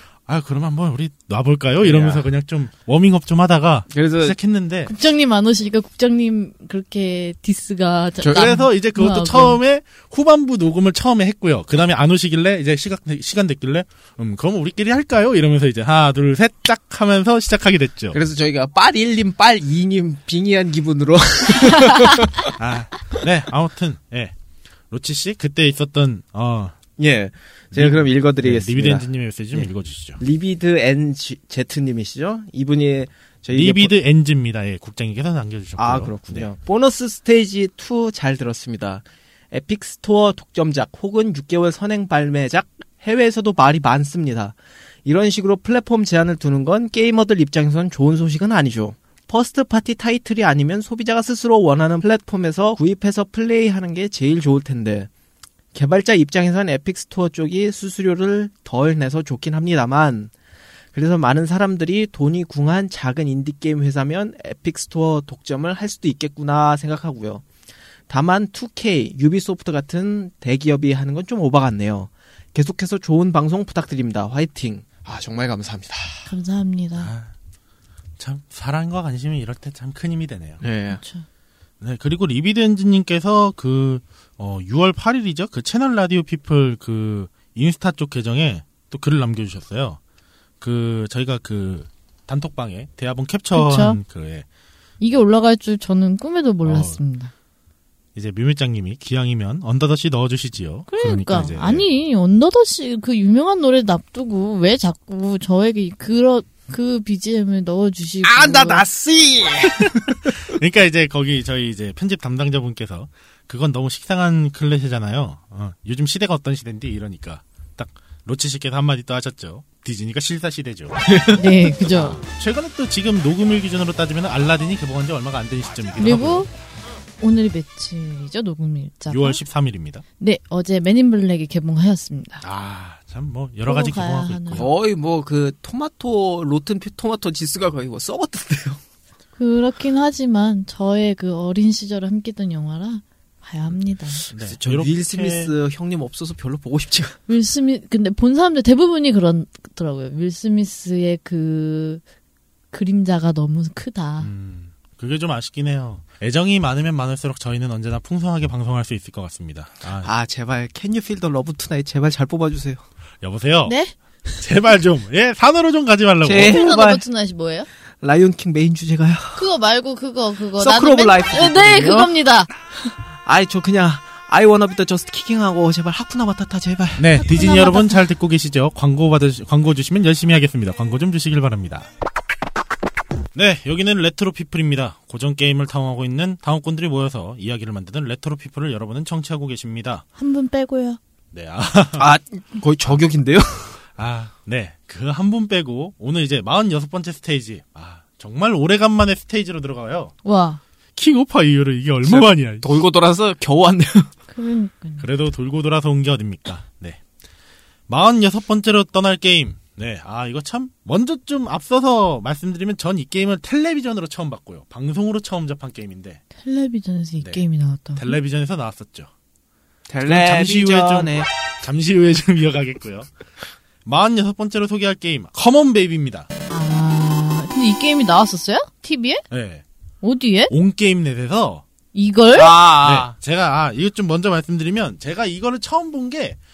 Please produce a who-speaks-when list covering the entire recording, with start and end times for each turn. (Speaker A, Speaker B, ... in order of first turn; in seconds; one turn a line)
Speaker A: 0.2-4.9
Speaker B: 1.8-2.2
Speaker B: 3.9-4.4
Speaker C: 4.9-9.6
Speaker B: 8.2-8.5
Speaker A: 8.3-18.2
Speaker B: 18.1-22.5
Speaker A: 22.6-24.3
Speaker A: 24.9-26.8
Speaker B: 27.0-33.9
Speaker A: 27.7-30.2
Speaker A: 33.5-36.5
Speaker B: 35.8-55.1
Speaker B: 55.7-60.3
Speaker B: 60.9-67.4
Speaker B: 68.1-76.3
Speaker C: 76.2-77.1
Speaker A: 77.0-77.3
Speaker A: 78.2-80.6
Speaker B: 80.6-81.0
Speaker C: 80.9-81.2
Speaker A: 81.8-90.0
Speaker A: 90.6-94.5
Speaker C: 93.5-94.0
Speaker C: 95.0-97.3
Speaker A: 96.7-97.0
Speaker A: 98.2-101.8
Speaker C: 100.9-108.8
Speaker B: 108.2-110.3
Speaker A: 109.8-121.1
Speaker B: 121.0-121.5
Speaker C: 121.3-122.2
Speaker A: 121.8-126.5
Speaker C: 126.0-126.5
Speaker C: 127.2-129.4
Speaker A: 129.1-130.0
Speaker C: 130.2-132.4
Speaker A: 132.4-134.7
Speaker C: 133.7-134.7
Speaker B: 134.5-138.8
Speaker C: 139.4-144.2
Speaker B: 144.2-147.2
Speaker A: 144.3-145.5
Speaker C: 147.3-152.0
Speaker C: 152.7-154.3
Speaker A: 154.2-160.1
Speaker B: 160.0-162.8
Speaker A: 163.2-163.8
Speaker C: 163.7-163.9
Speaker A: 164.4-166.6
Speaker B: 166.2-167.0
Speaker C: 166.4-167.7
Speaker B: 168.0-169.4
Speaker C: 169.3-172.5
Speaker B: 170.6-172.1
Speaker B: 173.2-177.0
Speaker A: 177.0-181.9
Speaker C: 177.2-178.0
Speaker A: 183.3-190.0
Speaker C: 190.2-191.0
Speaker A: 191.3-192.1
Speaker B: 192.0-193.8
Speaker A: 194.0-200.1
Speaker C: 200.2-200.6
Speaker A: 201.0-202.7
Speaker B: 202.1-204.1
Speaker C: 204.3-205.1
Speaker A: 205.0-207.0
Speaker A: 207.9-216.2
Speaker C: 216.4-218.2
Speaker A: 218.0-219.1
Speaker B: 219.9-221.3
Speaker A: 220.0-223.1
Speaker A: 223.8-226.3
Speaker C: 226.5-229.2
Speaker A: 229.3-229.6
Speaker C: 230.0-230.5
Speaker A: 230.5-231.6
Speaker C: 231.9-232.6
Speaker B: 232.3-233.1
Speaker A: 232.8-236.4